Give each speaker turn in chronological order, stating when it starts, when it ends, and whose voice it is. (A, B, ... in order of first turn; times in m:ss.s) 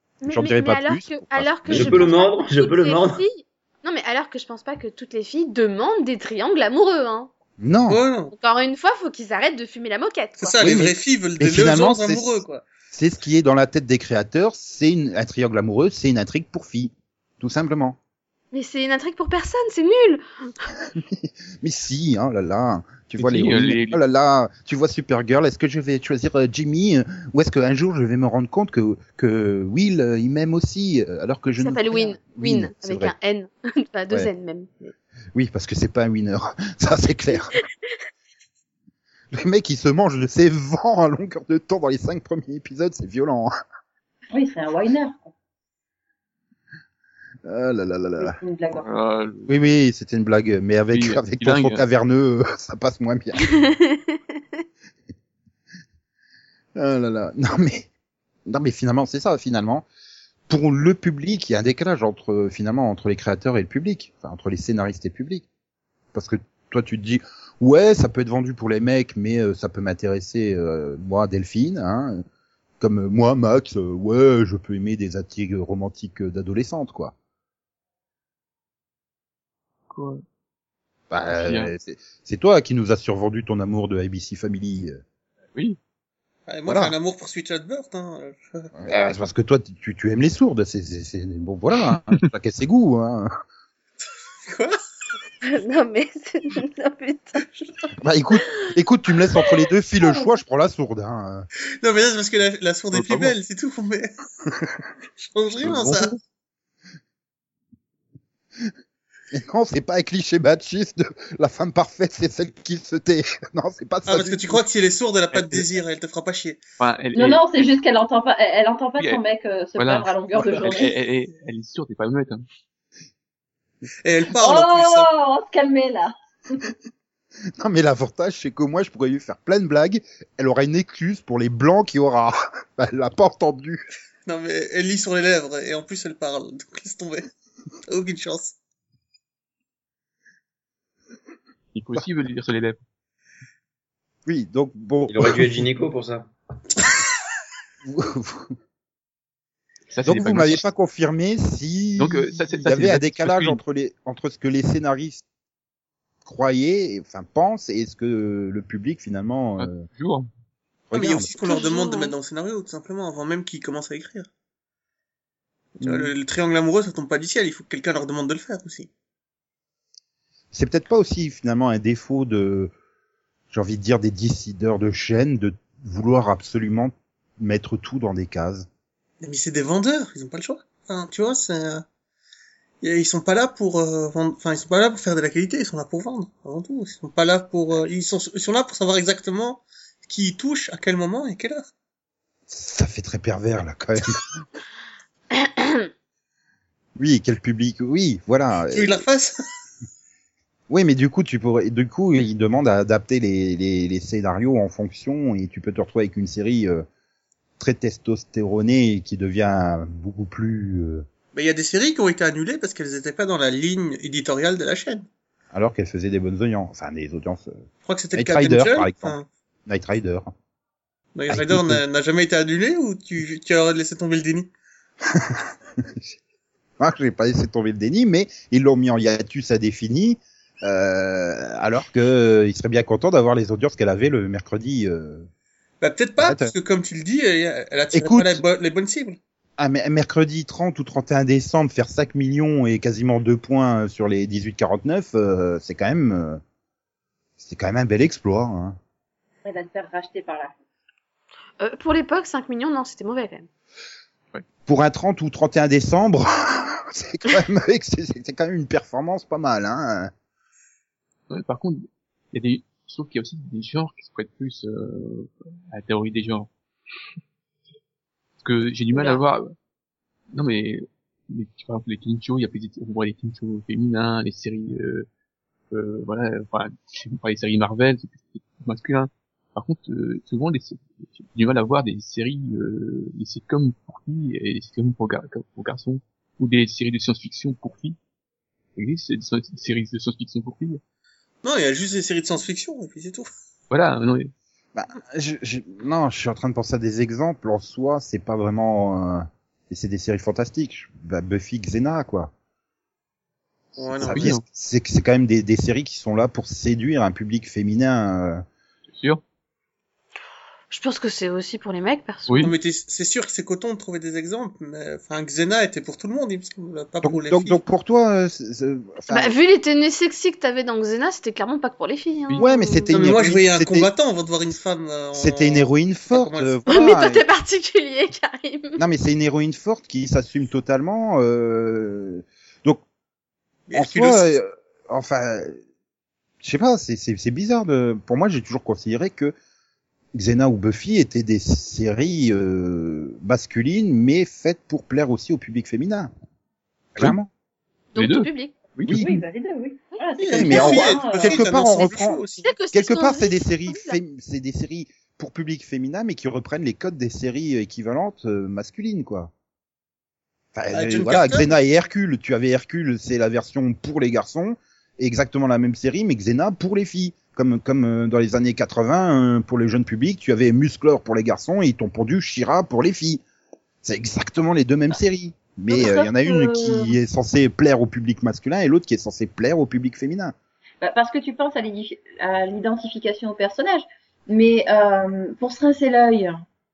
0:00.2-0:07.3 A
0:00.3-0:02.1 B
0:01.7-0:03.2 C
0:07.6-0:08.0 B
0:07.9-0:08.3 D
0:08.3-0:10.6 A
0:10.4-0:12.6 D
0:10.6-0:12.4 B
0:12.9-0:18.0 B
0:18.5-0:20.2 A
0:20.9-0:33.1 B
0:23.2-0:24.0 E
0:31.6-0:34.7 A
0:35.3-0:37.6 B
0:39.3-0:43.5 B
0:44.3-0:45.3 F
0:47.4-0:48.4 B
0:48.2-0:48.8 F
0:48.7-0:49.5 E
0:49.5-0:53.5 B
0:50.9-0:51.8 E
0:53.4-0:54.4 A
0:56.8-0:57.9 B
0:58.5-0:59.8 B
1:00.5-1:05.4 B
1:06.1-1:12.2 B
1:12.8-1:17.1 B
1:19.9-1:20.2 E
1:21.1-1:25.0 B
1:21.3-1:21.7 E
1:26.5-1:28.7 D
1:26.6-1:26.9 B
1:28.8-1:33.3 B
1:31.9-1:32.3 E
1:34.4-1:34.8 D
1:35.4-1:37.4 A
1:38.0-1:41.5 B
1:41.8-1:44.1 D
1:42.9-1:43.4 E
1:45.2-1:46.1 D
1:45.6-1:46.2 E
1:49.3-1:54.6 B
1:54.0-1:56.6 D
1:55.3-1:55.7 E
1:56.8-1:57.7 E
1:57.1-2:00.9 F
1:59.8-2:02.4 E
2:04.0-2:05.1 D
2:04.4-2:06.7 F
2:07.6-2:13.8 B
2:14.2-2:17.2 D
2:17.9-2:18.6 D
2:21.7-2:22.8 E
2:24.2-2:25.7 B
2:25.1-2:26.3 C
2:27.8-2:28.5 B
2:29.9-2:30.6 E
2:30.0-2:35.2 B
2:32.0-2:33.6 E
2:36.2-2:39.8 B
2:39.6-2:40.3 E
2:40.9-2:41.3 B
2:40.9-2:44.3 D
2:41.4-2:42.1 A
2:45.8-2:48.9 D
2:45.8-2:46.1 B
2:50.5-2:52.7 B
2:53.5-2:58.7 B
2:59.2-3:01.8 D
3:02.8-3:11.7 D
3:12.5-3:14.4 B
3:15.3-3:15.9 A
3:17.0-3:19.0 B
3:18.7-3:19.4 D
3:20.7-3:26.8 B
3:27.6-3:31.0 B
3:31.3-3:35.0 D
3:35.5-3:37.6 B
3:37.8-3:39.3 D
3:38.1-3:40.3 B
3:41.1-3:44.5 D
3:41.3-3:41.8 B
3:45.1-3:46.0 B
3:46.8-3:55.3 B
3:55.8-3:59.2 D
3:56.2-3:56.5 B
3:57.9-3:58.4 B
3:59.6-4:06.4 B
4:07.4-4:08.8 B
4:09.4-4:10.5 F
4:11.6-4:13.5 A
4:14.7-4:20.1 B
4:21.3-4:26.5 E
4:28.4-4:29.5 E
4:28.9-4:29.2 F
4:30.3-4:35.1 E
4:35.7-4:48.0 E
4:48.8-4:50.8 E
4:51.4-4:53.3 D
4:53.7-4:54.3 E
4:54.7-5:02.3 B
5:03.8-5:04.3 D
5:03.8-5:08.4 B
5:04.0-5:04.4 E
5:09.0-5:09.2 E
5:10.7-5:12.5 A
5:12.3-5:12.5 E
5:12.4-5:17.6 D
5:17.0-5:19.3 B
5:19.1-5:23.3 A
5:22.3-5:23.9 B
5:22.9-5:26.6 D
5:25.1-5:27.2 B
5:26.7-5:28.8 A
5:28.8-5:32.8 B
5:33.7-5:34.4 D
5:33.7-5:35.6 B
5:36.4-5:39.3 B
5:40.1-5:46.1 B
5:47.0-5:47.3 B
5:47.9-5:48.5 A
5:48.0-5:49.1 E
5:48.9-5:49.2 B
5:48.9-5:51.5 F
5:50.2-5:52.5 D
5:50.3-5:52.2 B
5:52.4-5:54.0 A
5:52.7-5:59.3 B
6:00.5-6:13.2 B
6:00.7-6:01.5 D
6:13.8-6:20.3 B
6:15.7-6:17.0 F
6:20.8-6:26.4 F